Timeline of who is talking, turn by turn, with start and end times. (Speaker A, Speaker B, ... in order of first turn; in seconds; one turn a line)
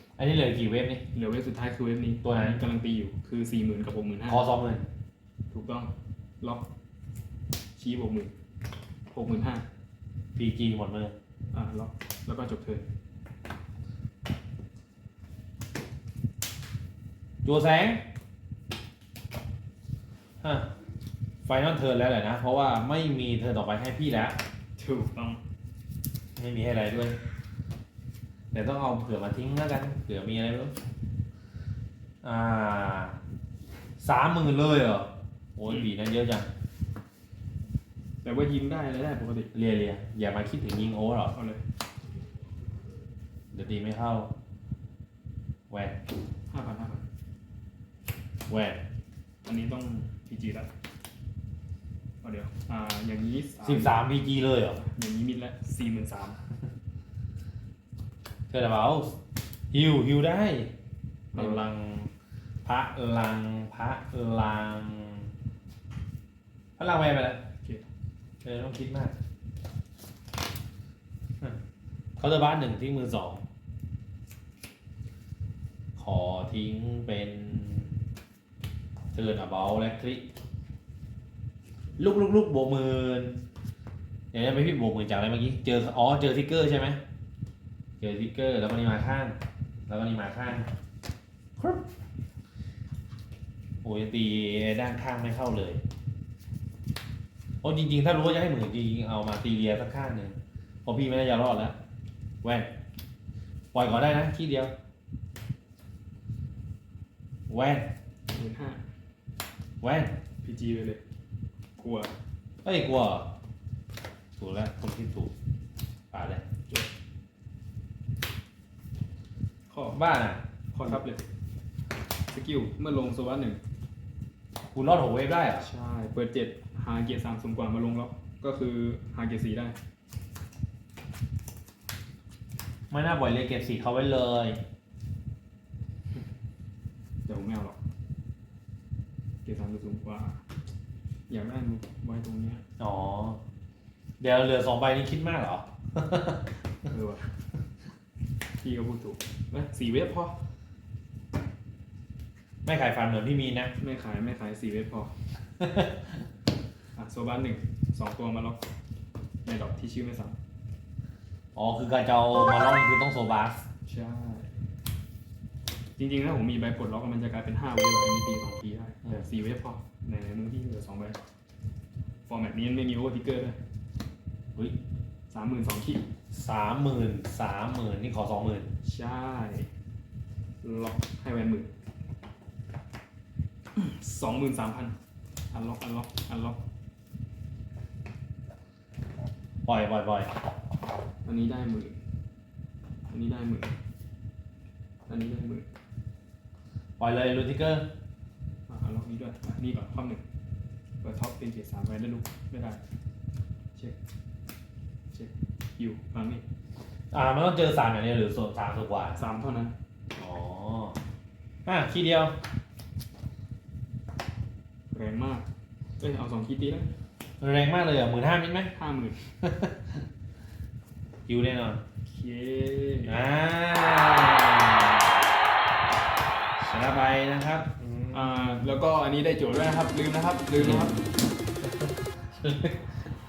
Speaker A: 0.2-1.0
Speaker B: 1.1-4.4
Speaker A: 2.2-2.6
Speaker A: 4.3-4.9
Speaker B: 5.5-6.6
Speaker B: 7.8-8.3
Speaker B: 9.1-9.7
Speaker A: 10.3-11.2
Speaker B: 11.5-12.8
Speaker A: 17.4-18.0
Speaker A: 20.4-20.7
Speaker A: 21.4-24.4
Speaker B: 24.8-25.4
Speaker A: 26.4-27.2
Speaker A: 28.5-30.7
Speaker A: 32.2-33.2
Speaker A: 34.0-36.5
Speaker B: 38.2-39.5
Speaker A: 39.5-41.3
Speaker B: 41.3-41.6
Speaker A: 43.5-44.3
Speaker A: 45.7-46.0
Speaker B: 46.5-47.0
Speaker A: 48.5-48.8
Speaker B: 49.4-50.7
Speaker B: 52.2-54.0
Speaker A: 53.6-54.8
Speaker B: 54.8-56.4
Speaker A: 58.5-59.2
Speaker A: 59.7-60.7
Speaker B: 61.3-61.7
Speaker A: 61.3-62.1
Speaker A: 62.6-65.3
Speaker A: 66.8-67.4
Speaker A: 68.4-69.1
Speaker A: 72.2-73.5
Speaker A: 76.0-77.9
Speaker A: 79.1-80.3
Speaker A: 82.0-83.4
Speaker A: 84.3-87.0
Speaker A: 88.0-90.7
Speaker A: 91.6-91.8
Speaker A: 93.8-95.8
Speaker A: 97.6-101.8
Speaker A: 102.4-102.7
Speaker A: 103.7-104.7
Speaker A: 107.5-107.9
Speaker B: 108.3-108.8
Speaker A: 109.8-110.2
Speaker B: 110.4-111.0
Speaker B: 111.8-112.1
Speaker A: 112.6-113.3
Speaker A: 114.4-115.3
Speaker A: 116.1-116.4
Speaker B: 119.7-120.0
Speaker A: 119.9-120.4
Speaker B: 120.7-121.2
Speaker B: 122.3-123.6
Speaker A: 124.7-125.7
Speaker B: 125.6-129.8
Speaker A: 132.9-134.6
Speaker B: 137.2-137.8
Speaker B: 139.4-140.4
Speaker B: 141.3-142.6
Speaker A: 142.8-143.4
Speaker A: 144.2-146.4
Speaker B: 146.8-147.3
Speaker B: 148.6-150.4
Speaker A: 152.6-153.7
Speaker B: 153.8-155.1
Speaker A: 155.6-156.1
Speaker B: 156.9-158.6
Speaker B: 159.4-160.3
Speaker A: 161.5-163.6
Speaker B: 163.8-164.5
Speaker B: 166.0-171.2
Speaker B: 172.3-173.6
Speaker B: 175.3-176.0
Speaker A: 176.3-178.7
Speaker B: 178.8-179.7
Speaker B: 180.6-181.7
Speaker B: 183.7-184.9
Speaker B: 185.5-186.6
Speaker A: 189.6-190.3
Speaker B: 191.2-192.0
Speaker B: 193.1-193.8
Speaker B: 195.1-195.7
Speaker A: 197.0-197.9
Speaker B: 198.7-200.2
Speaker B: 201.0-202.8
Speaker B: 205.1-206.4
Speaker A: 207.1-209.2
Speaker B: 209.1-209.7
Speaker A: 210.1-211.0
Speaker A: 211.6-212.4
Speaker B: 214.9-215.5
Speaker B: 216.0-216.9
Speaker A: 217.4-218.7
Speaker B: 218.7-219.3
Speaker A: 219.4-220.0
Speaker A: 221.3-221.8
Speaker B: 222.1-223.2
Speaker A: 223.1-225.2
Speaker A: 226.6-228.3
Speaker B: 228.1-231.0
Speaker A: 230.5-231.1
Speaker A: 231.6-233.1